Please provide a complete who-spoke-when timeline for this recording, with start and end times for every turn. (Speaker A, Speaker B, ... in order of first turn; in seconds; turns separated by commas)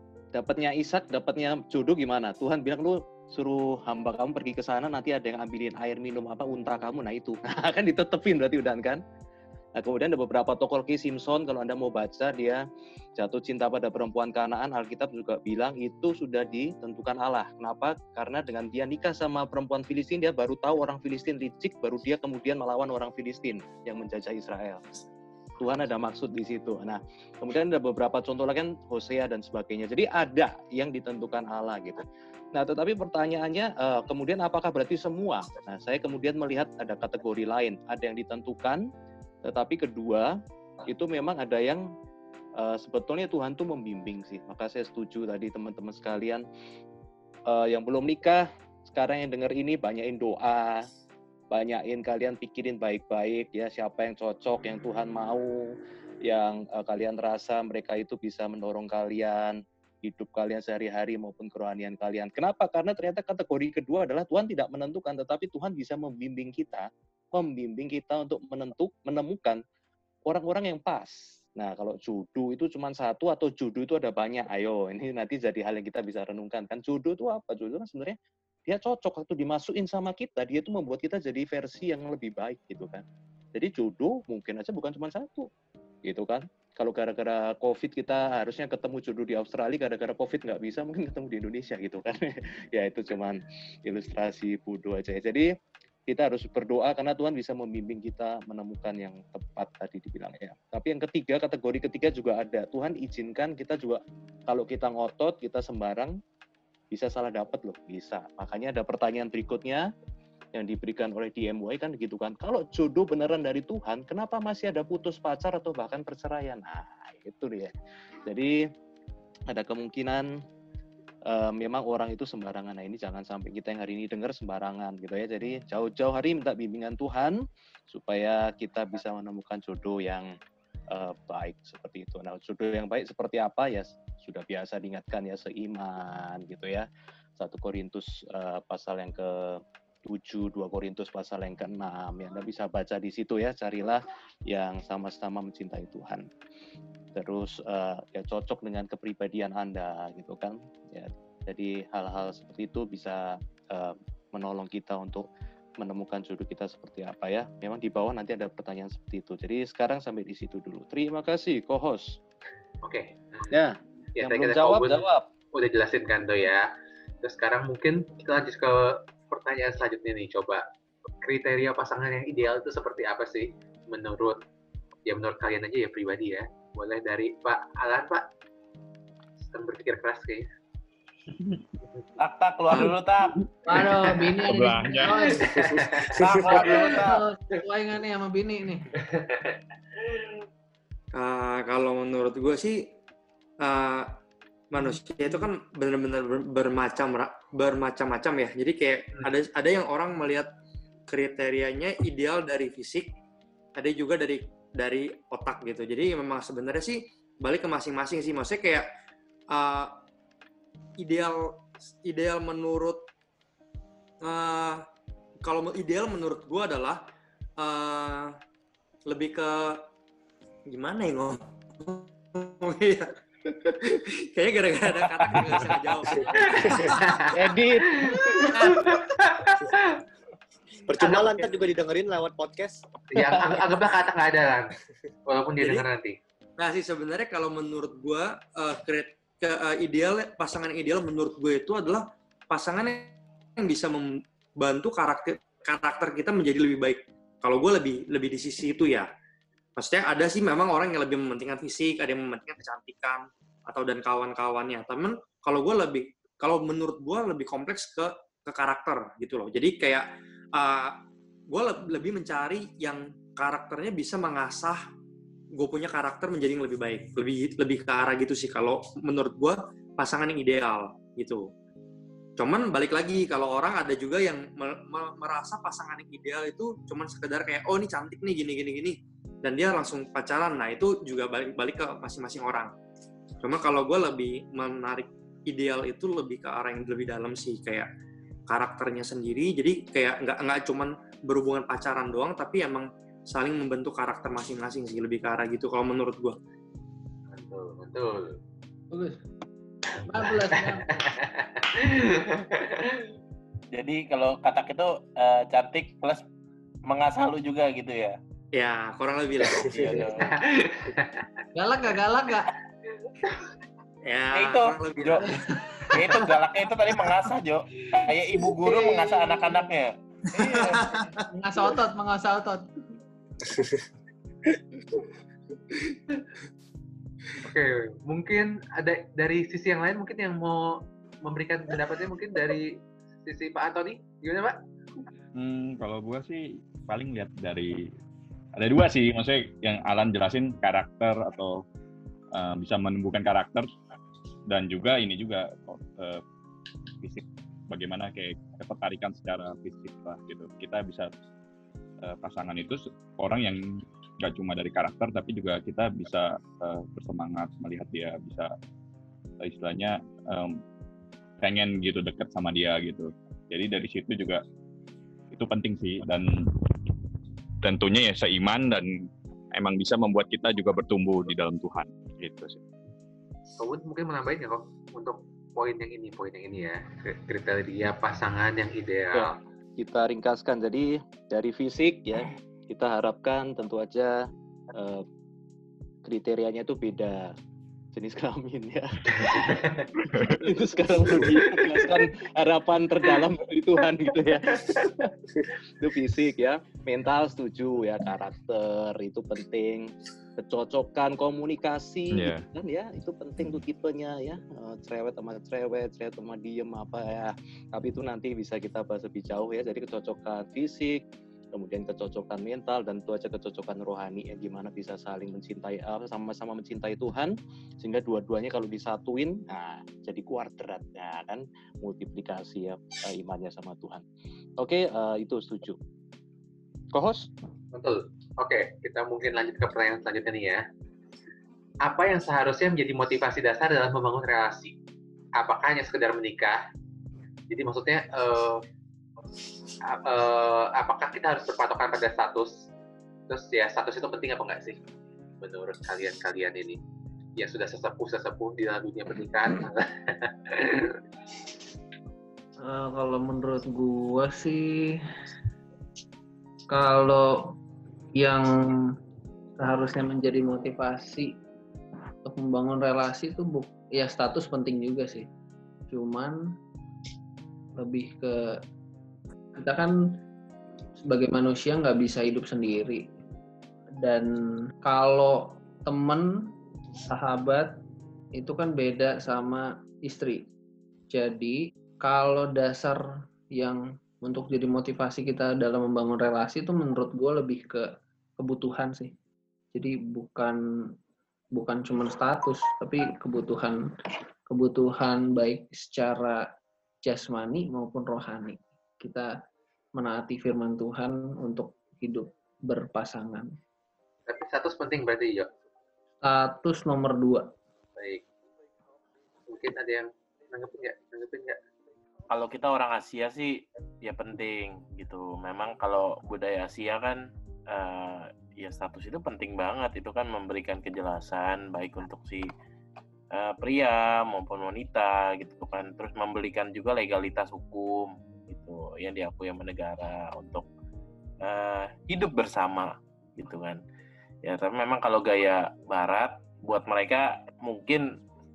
Speaker A: 0.3-9.0, Speaker A: 9.8-12.6, Speaker A: 13.2-24.8, Speaker A: 25.6-38.9, Speaker A: 39.5-40.4, Speaker A: 40.9-41.9, Speaker A: 42.6-46.5, Speaker A: 47.5-50.9, Speaker A: 51.5-55.7, Speaker A: 56.2-69.6, Speaker A: 70.3-83.0, Speaker A: 83.5-85.5, Speaker A: 86.0-95.5, Speaker A: 96.1-106.2, Speaker A: 106.9-109.9, Speaker A: 110.5-117.7, Speaker A: 118.2-118.7, Speaker A: 119.5-120.3, Speaker A: 121.3-130.3, Speaker A: 130.9-136.9, Speaker A: 137.4-146.3, Speaker A: 147.2-155.3, Speaker A: 155.8-162.2, Speaker B: 162.8-163.5, Speaker A: 163.5-165.3, Speaker B: 164.2-166.7, Speaker B: 167.2-170.6, Speaker B: 171.2-174.4, Speaker B: 175.1-178.3, Speaker B: 179.4-180.5, Speaker C: 182.2-183.4, Speaker D: 183.7-185.5, Speaker E: 184.4-185.5, Speaker B: 185.4-186.2, Speaker F: 185.6-186.5, Speaker C: 186.1-187.2, Speaker D: 186.4-188.9, Speaker B: 189.0-190.2, Speaker G: 191.1-192.9, Speaker G: 193.6-194.2, Speaker G: 194.7-200.5, Speaker G: 201.1-203.1, Speaker G: 203.8-208.9, Speaker G: 209.5-210.0, Speaker G: 211.0-213.1, Speaker G: 214.2-214.8, Speaker G: 215.4-217.0, Speaker G: 217.6-218.4, Speaker G: 219.1-219.9, Speaker G: 220.7-227.3, Speaker B: 226.4-227.4, Speaker F: 226.6-227.0, Speaker A: 227.3-228.2, Speaker G: 228.1-229.7, Speaker B: 228.6-230.0, Speaker F: 230.9-232.9, Speaker B: 231.0-231.5, Speaker B: 233.1-234.8, Speaker B: 235.3-236.2, Speaker G: 236.6-249.1, Speaker G: 249.8-261.0, Speaker G: 261.5-264.8, Speaker G: 265.6-271.5, Speaker G: 272.4-282.7, Speaker G: 283.4-287.9, Speaker G: 288.5-296.4, Speaker B: 297.3-298.4, Speaker D: 298.9-299.2, Speaker D: 300.0-300.9, Speaker B: 300.5-303.1, Speaker C: 303.7-306.2, Speaker C: 306.9-308.2, Speaker G: 308.5-310.1, Speaker C: 309.4-310.4, Speaker B: 310.1-311.3, Speaker D: 311.6-312.5, Speaker G: 314.0-315.4, Speaker C: 314.3-315.3, Speaker C: 315.9-321.0, Speaker D: 318.6-319.6, Speaker D: 320.9-322.8, Speaker B: 327.4-334.6, Speaker E: 335.3-337.9, Speaker E: 338.6-341.6, Speaker E: 342.3-343.7, Speaker E: 344.5-346.2, Speaker E: 347.0-351.1, Speaker E: 352.0-353.6, Speaker E: 354.2-358.5, Speaker E: 359.4-360.6, Speaker E: 361.4-364.4, Speaker E: 365.3-366.5, Speaker E: 367.6-368.9, Speaker E: 369.5-372.6, Speaker B: 373.6-379.4, Speaker A: 379.1-385.1, Speaker A: 386.1-387.4, Speaker A: 387.9-411.0, Speaker B: 389.2-389.9, Speaker B: 391.3-391.9, Speaker E: 402.1-402.4, Speaker A: 411.5-424.1, Speaker A: 424.6-425.8, Speaker A: 426.9-427.3, Speaker B: 427.7-430.6, Speaker B: 431.8-434.8, Speaker B: 435.4-436.6, Speaker B: 437.5-438.6, Speaker B: 439.8-442.6, Speaker B: 443.3-444.8, Speaker B: 445.4-446.8, Speaker B: 447.4-451.0, Speaker D: 452.6-455.0, Speaker D: 456.7-457.6, Speaker D: 458.1-458.8, Speaker D: 459.6-461.3, Speaker D: 462.2-465.3, Speaker D: 465.9-466.4, Speaker D: 467.8-468.6, Speaker D: 469.6-470.0, Speaker D: 471.1-473.1, Speaker D: 474.0-476.5, Speaker D: 477.0-477.8, Speaker D: 478.4-480.5, Speaker D: 481.1-483.0, Speaker D: 483.6-489.1, Speaker D: 489.7-490.9, Speaker D: 491.5-493.9, Speaker D: 494.5-496.5, Speaker D: 497.1-499.4, Speaker D: 499.9-503.6, Speaker B: 504.3-505.5, Speaker D: 506.2-507.5, Speaker B: 508.0-508.2, Speaker B: 509.5-511.6, Speaker C: 512.3-522.5, Speaker C: 523.3-530.6, Speaker C: 531.4-533.8, Speaker C: 534.4-538.1